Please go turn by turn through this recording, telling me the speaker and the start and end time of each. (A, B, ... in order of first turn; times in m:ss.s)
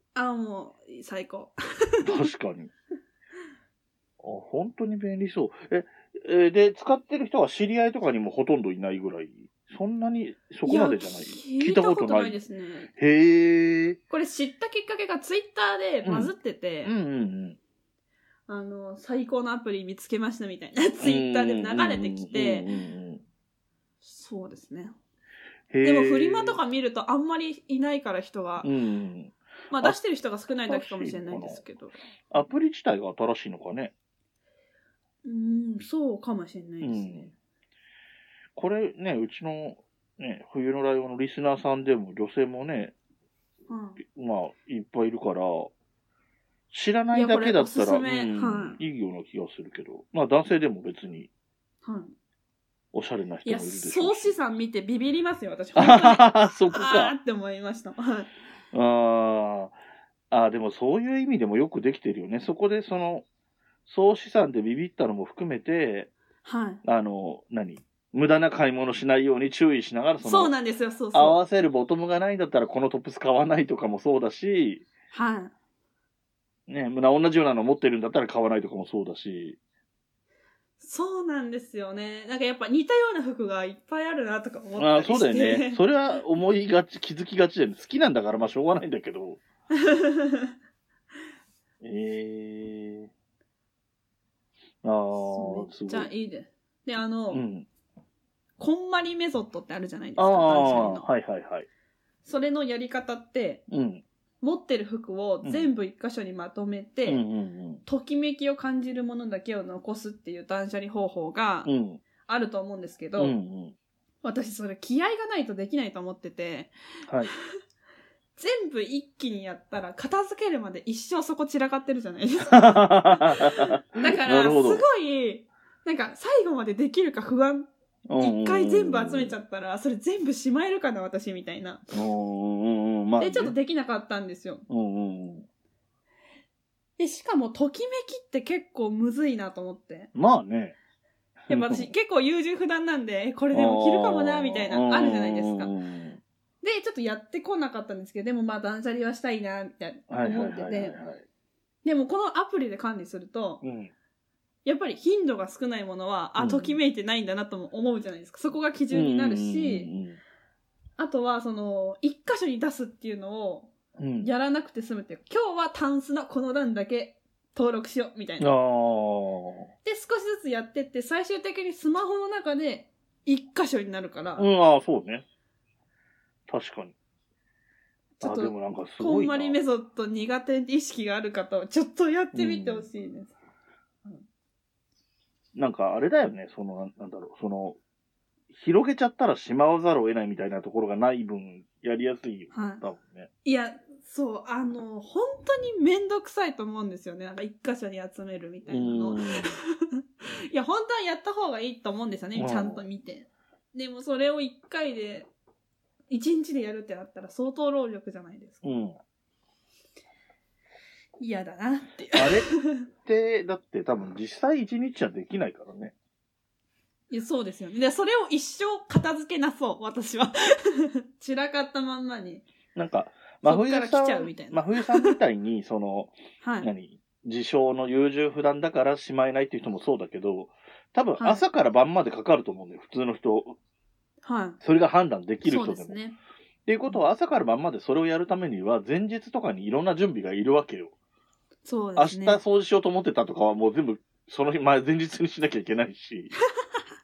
0:00.1-0:02.3 A
0:02.0-0:02.7 B
0:04.2-0:12.4 B
0:10.6-0:12.9 A
0:13.0-0:14.0 B
0:14.1-0:16.9 A
0:16.0-0:16.3 B
0:16.8-0:17.6 B
0:18.5-0:22.7 A
0:21.0-0:23.2 B
0:24.0-0:25.0 A
0:25.7-0:26.6 B
0:25.8-0:28.7 A
0:28.6-0:30.0 B
0:29.7-0:32.0 A
0:30.7-0:31.6 B
0:32.3-0:33.9 B
0:35.2-0:37.3 A
0:36.8-0:37.3 B
0:38.6-0:42.9 B
0:43.7-0:44.0 A
0:44.0-0:45.7 B
0:46.7-0:51.3 B
0:47.1-0:48.8 A
0:51.8-0:52.1 A
0:52.9-0:54.3 B
0:53.4-0:58.3 A
0:55.8-0:57.1 B
0:58.7-0:59.8 B
1:00.3-1:03.2 B
1:03.9-1:06.1 B
1:06.4-1:06.8 A
1:06.8-1:10.5 B
1:10.2-1:11.4 A
1:11.1-1:14.8 B
1:15.1-1:15.5 A
1:16.7-1:19.6 B
1:20.8-1:25.8 A
1:24.8-1:29.4 B
1:29.8-1:30.5 A
1:31.8-1:33.1 B
1:34.8-1:36.1 B
1:35.2-1:37.4 A
1:37.3-1:37.7 B
1:38.6-1:41.1 A
1:40.2-1:41.7 B
1:42.2-1:43.6 A
1:43.7-1:44.0 B
1:44.4-1:47.2 A
1:45.4-1:45.7 B
1:47.0-1:47.8 B
1:47.8-1:51.7 A
1:51.6-1:52.0 B
1:52.2-1:53.4 A
1:53.2-1:53.8 B
1:54.2-1:56.7 A
1:57.1-1:57.3 B
1:58.4-2:11.9 A
2:02.5-2:04.8 B
2:08.1-2:09.4 B
2:11.9-2:13.5 B
2:13.2-2:14.6 A
2:14.7-2:15.5 B
2:17.0-2:20.1 A
2:20.2-2:20.8 B
2:21.5-2:21.9 B
2:21.5-2:25.7 A
2:23.5-2:26.2 B
2:26.6-2:31.0 A
2:30.1-2:31.2 B
2:31.8-2:33.6 A
2:33.6-2:33.9 B
2:34.6-2:39.9 A
2:36.4-2:36.8 B
2:38.9-2:40.2 B
2:41.0-2:48.5 A
2:44.0-2:44.3 B
2:48.4-2:49.7 B
2:49.8-2:54.5 A
2:54.4-2:55.2 B
2:56.5-2:56.9 B
2:58.2-3:03.4 A
2:58.2-2:59.6 B
3:02.3-3:02.9 B
3:05.6-3:07.8 B
3:08.5-3:13.3 B
3:12.5-3:12.8 A
3:13.4-3:25.3 A
3:18.7-3:19.5 B
3:22.4-3:22.8 B
3:26.1-3:28.7 A
3:28.6-3:29.0 B
3:31.2-3:32.9 A
3:32.1-3:32.5 B
3:33.0-3:35.9 B
3:37.1-3:42.4 A
3:42.8-3:53.6 B
3:43.4-3:45.2 A
3:46.4-3:46.7 A
3:54.2-3:54.6 A
3:54.6-3:56.0 B
3:55.4-3:56.2 A
3:56.7-4:00.9 B
4:01.6-4:02.4 A
4:02.0-4:06.3 B